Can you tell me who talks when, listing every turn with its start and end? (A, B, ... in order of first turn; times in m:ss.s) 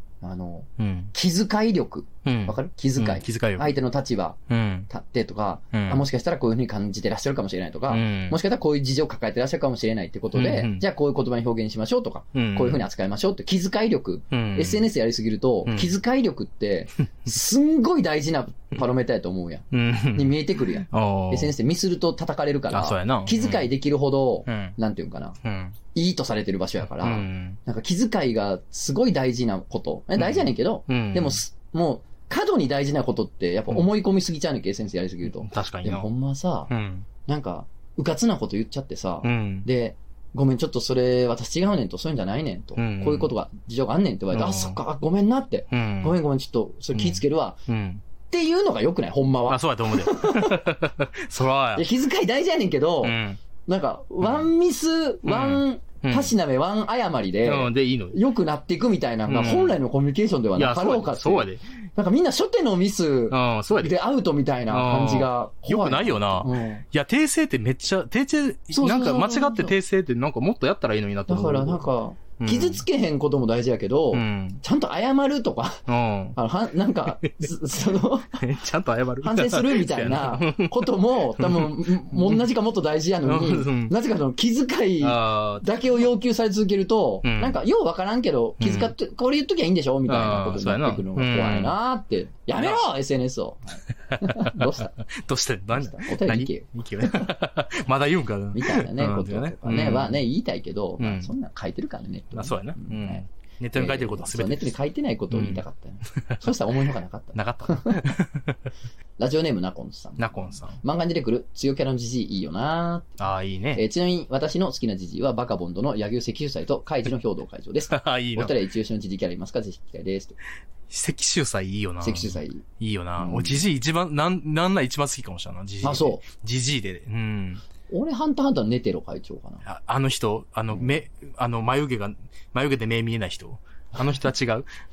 0:00.2-0:04.4 A
0:00.8-0:01.1 B
0:02.2-0:03.7 B
0:04.5-0:04.9 B
0:04.9-0:25.4 A
0:05.7-0:06.0 B
0:07.9-0:08.4 B
0:10.3-0:10.8 B
0:12.3-0:12.8 B
0:14.3-0:14.8 B
0:15.6-0:15.9 B
0:19.7-0:20.3 B
0:20.8-0:21.5 B
0:22.7-0:23.7 B
0:24.4-0:24.8 B
0:25.4-0:25.7 B
0:25.9-0:36.7 A
0:27.0-0:27.6 B
0:30.2-0:31.4 B
0:35.2-0:36.1 B
0:36.7-0:37.1 B
0:37.2-0:47.6 A
0:39.2-0:39.7 B
0:42.8-0:43.3 B
0:44.3-0:44.8 B
0:45.7-0:46.2 B
0:46.9-0:48.0 B
0:48.3-0:50.6 A
0:49.5-0:51.8 B
0:51.7-1:06.8 A
0:53.0-0:53.4 B
0:54.2-0:54.5 B
0:55.2-0:56.3 B
0:57.4-0:58.2 B
0:59.3-0:59.8 B
1:00.5-1:01.6 B
1:03.3-1:03.9 B
1:04.7-1:11.9 B
1:08.7-1:09.7 A
1:11.3-1:18.4 A
1:12.4-1:12.8 B
1:14.1-1:14.6 B
1:15.9-1:16.4 B
1:17.1-1:17.5 B
1:18.4-1:22.4 B
1:19.2-1:34.9 A
1:23.2-1:23.9 B
1:25.0-1:25.7 B
1:27.2-1:27.6 B
1:28.6-1:28.9 B
1:30.1-1:31.7 B
1:32.5-1:32.8 B
1:34.0-1:40.2 B
1:35.7-1:37.3 A
1:38.5-1:48.0 A
1:41.0-1:41.3 B
1:42.3-1:44.7 B
1:45.3-1:45.6 B
1:47.3-1:48.7 B
1:49.2-1:53.2 A
1:50.2-1:50.8 B
1:53.2-1:53.8 B
1:53.7-2:00.4 A
1:57.9-1:58.5 B
2:00.9-2:07.6 B
2:02.0-2:02.6 A
2:03.2-2:03.6 A
2:05.8-2:06.2 A
2:07.9-2:09.6 A
2:09.6-2:14.7 B